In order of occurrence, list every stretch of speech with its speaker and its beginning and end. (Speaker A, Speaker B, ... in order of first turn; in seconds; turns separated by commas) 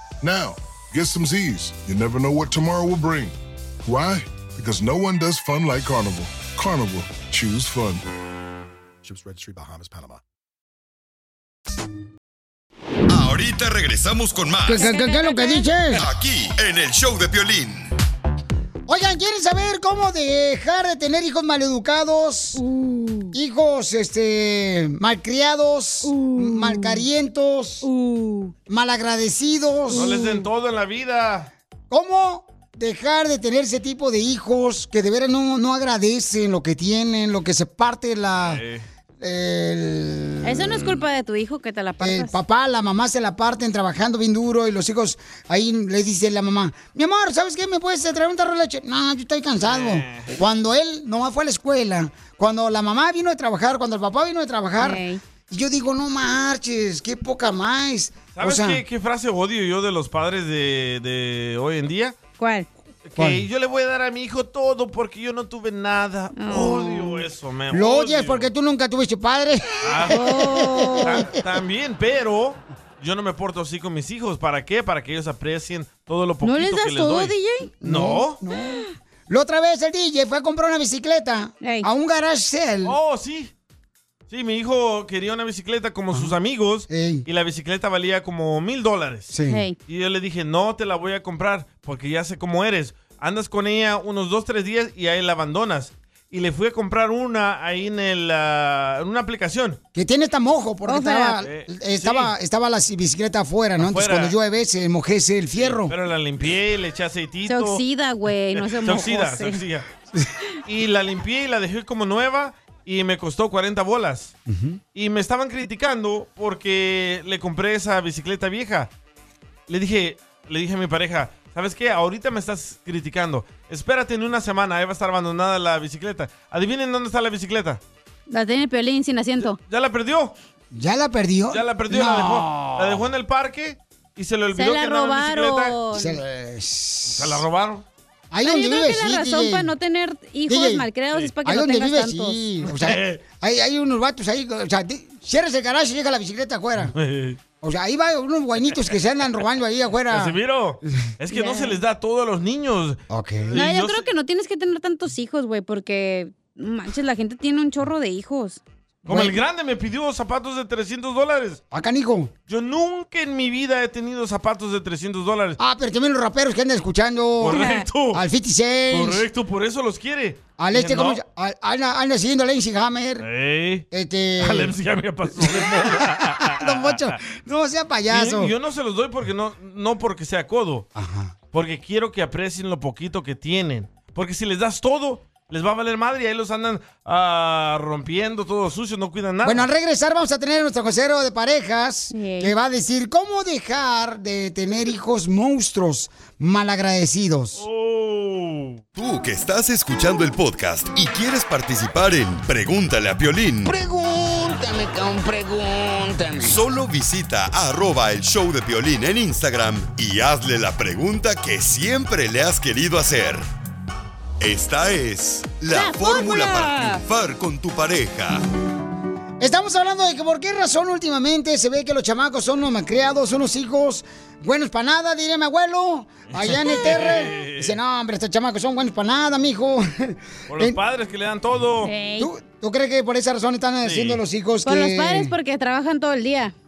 Speaker A: 0.2-8.0, Speaker B: 13.1-14.8, Speaker C: 14.7-16.1, Speaker D: 14.8-15.7, Speaker B: 15.9-17.9, Speaker C: 18.9-22.6, Speaker D: 22.6-23.3, Speaker C: 23.3-27.9, Speaker D: 26.0-27.0, Speaker D: 27.8-28.5, Speaker C: 28.7-30.1, Speaker D: 29.9-30.4, Speaker E: 29.9-31.5, Speaker C: 31.9-38.6, Speaker E: 38.4-38.8, Speaker C: 39.2-41.0, Speaker D: 40.4-42.3, Speaker C: 42.0-58.8, Speaker E: 49.6-50.3, Speaker D: 54.8-55.2, Speaker E: 58.3-62.1, Speaker D: 62.4-62.7, Speaker E: 63.0-68.5, Speaker C: 63.2-63.4, Speaker D: 66.3-67.0, Speaker C: 67.7-71.3, Speaker E: 69.8-70.2, Speaker D: 70.1-71.2, Speaker E: 71.0-78.4, Speaker D: 76.4-77.7, Speaker C: 77.8-83.0, Speaker D: 81.6-81.9, Speaker E: 82.8-83.5, Speaker E: 84.3-89.3, Speaker C: 86.9-87.2, Speaker C: 89.3-89.6, Speaker D: 89.5-89.8, Speaker E: 89.9-99.8, Speaker C: 99.9-105.9, Speaker D: 100.8-101.4, Speaker E: 101.4-102.3, Speaker E: 103.8-104.3, Speaker E: 105.5-107.8, Speaker D: 107.5-109.6, Speaker E: 108.5-109.9, Speaker E: 110.7-114.3, Speaker C: 114.5-114.8, Speaker E: 114.9-118.9, Speaker E: 119.7-127.8, Speaker D: 128.3-129.6, Speaker E: 129.6-130.3, Speaker C: 130.7-133.1, Speaker E: 131.5-135.8, Speaker D: 134.5-136.2, Speaker C: 135.9-137.4, Speaker E: 137.1-137.8, Speaker C: 138.3-139.7, Speaker D: 138.4-142.4, Speaker C: 140.5-140.9, Speaker C: 141.4-146.9, Speaker E: 142.6-143.2, Speaker E: 146.9-147.4, Speaker C: 147.6-150.4, Speaker E: 150.1-154.0, Speaker D: 151.3-151.8, Speaker C: 153.1-153.6, Speaker D: 153.5-158.6, Speaker E: 159.0-161.6, Speaker C: 159.1-159.4, Speaker C: 161.7-162.3, Speaker E: 162.5-165.6, Speaker C: 165.6-169.2, Speaker E: 167.4-168.2, Speaker D: 167.5-167.8, Speaker E: 168.9-171.2, Speaker C: 170.6-173.2, Speaker E: 173.2-173.8, Speaker C: 173.9-174.7, Speaker E: 174.4-177.2, Speaker C: 175.3-178.5, Speaker E: 178.1-180.8, Speaker C: 180.9-181.3, Speaker E: 181.5-189.7, Speaker C: 189.4-197.6, Speaker D: 192.1-192.5, Speaker E: 197.6-198.8, Speaker B: 198.9-203.7, Speaker F: 203.7-206.6, Speaker B: 206.4-213.4, Speaker B: 214.4-218.4, Speaker D: 215.7-217.0, Speaker C: 219.4-230.8, Speaker E: 226.3-227.8, Speaker E: 230.5-231.9, Speaker D: 231.8-232.3, Speaker C: 232.2-235.3, Speaker E: 233.8-234.2, Speaker D: 234.6-236.5